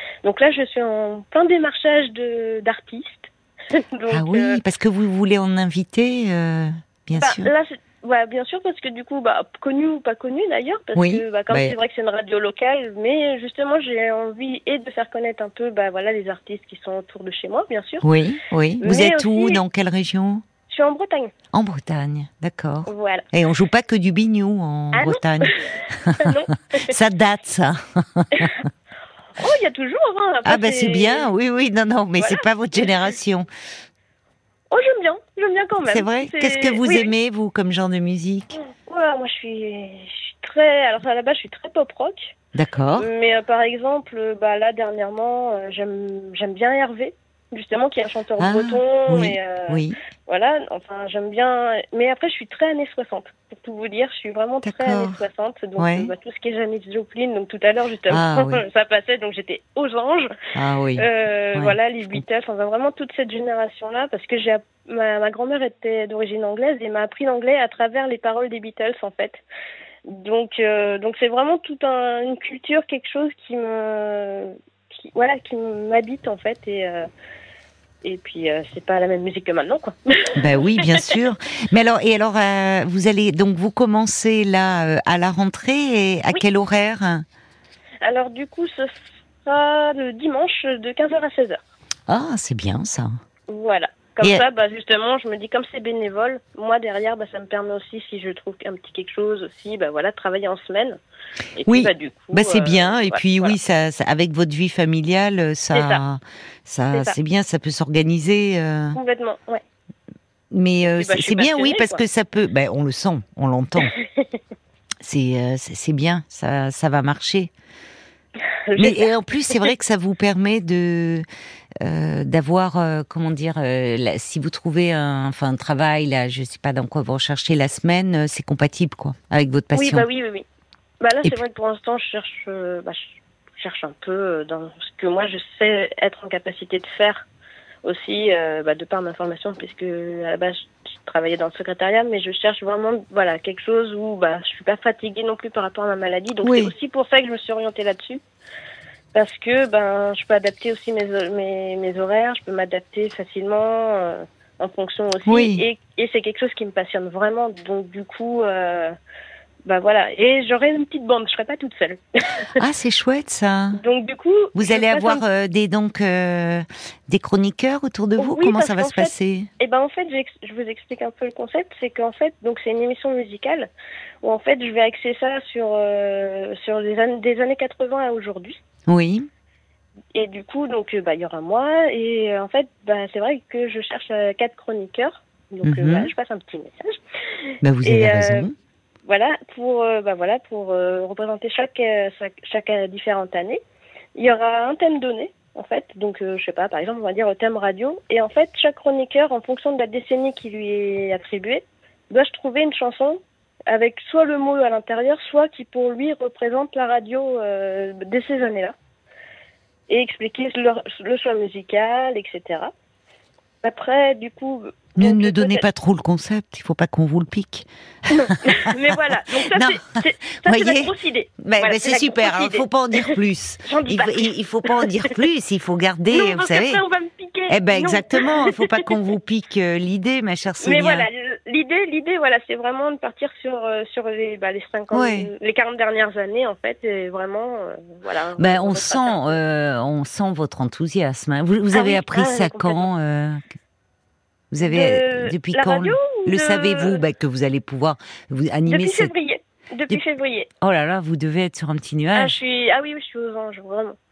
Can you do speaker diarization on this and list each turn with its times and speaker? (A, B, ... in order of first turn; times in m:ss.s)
0:00.2-0:04.6 A
0:04.1-0:07.5 B
0:07.2-0:18.1 A
0:11.0-0:11.8 B
0:18.0-0:20.4 B
0:18.8-0:19.6 A
0:20.7-0:21.3 A
0:21.5-0:28.6 B
0:22.9-0:23.3 A
0:24.9-0:26.9 A
0:29.4-0:31.3 A
0:30.4-0:33.5 B
0:32.2-0:32.4 A
0:34.7-0:37.1 A
0:35.8-0:38.6 B
0:38.8-0:42.4 A
0:42.6-0:43.1 B
0:43.0-1:00.3 A
0:48.4-0:50.0 B
0:54.6-0:55.2 B
0:55.8-0:56.1 B
0:58.1-0:58.6 B
1:00.6-1:02.2 B
1:01.0-1:09.4 A
1:10.1-1:17.1 A
1:18.0-1:21.2 A
1:20.4-1:27.2 B
1:28.0-1:31.6 A
1:32.1-1:33.2 B
1:33.5-1:41.0 A
1:41.6-1:43.6 A
1:41.7-1:49.0 B
1:45.7-1:46.0 A
1:49.0-1:49.6 A
1:50.5-1:53.9 B
1:50.9-1:52.0 A
1:53.8-1:54.4 A
1:55.0-1:57.5 B
1:58.7-1:59.7 A
1:58.8-2:01.2 B
2:01.8-2:10.0 B
2:09.7-2:10.4 A
2:11.0-2:17.3 A
2:17.8-2:28.2 A
2:26.4-2:26.7 B
2:29.1-2:38.9 A
2:35.3-2:35.6 B
2:39.6-2:42.5 A
2:42.6-2:43.8 B
2:43.8-2:45.2 A
2:44.6-2:49.5 B
2:48.2-2:53.7 A
2:54.2-2:58.6 A
2:58.9-2:59.3 B
3:00.2-3:08.5 A
3:05.6-3:06.1 B
3:07.6-3:08.5 B
3:09.1-3:13.6 A
3:14.2-3:28.7 A
3:29.9-3:32.7 A
3:33.6-3:35.6 A
3:35.0-3:38.7 B
3:38.1-3:45.2 A
3:39.5-3:46.8 B
3:46.1-3:48.7 A
3:47.5-3:51.1 B
3:50.6-3:59.4 A
3:54.9-3:55.3 B
3:58.4-4:03.4 B
4:01.7-4:02.9 A
4:04.5-4:09.1 B
4:04.6-4:07.0 A
4:08.7-4:10.5 A
4:10.6-4:12.4 B
4:12.1-4:14.0 A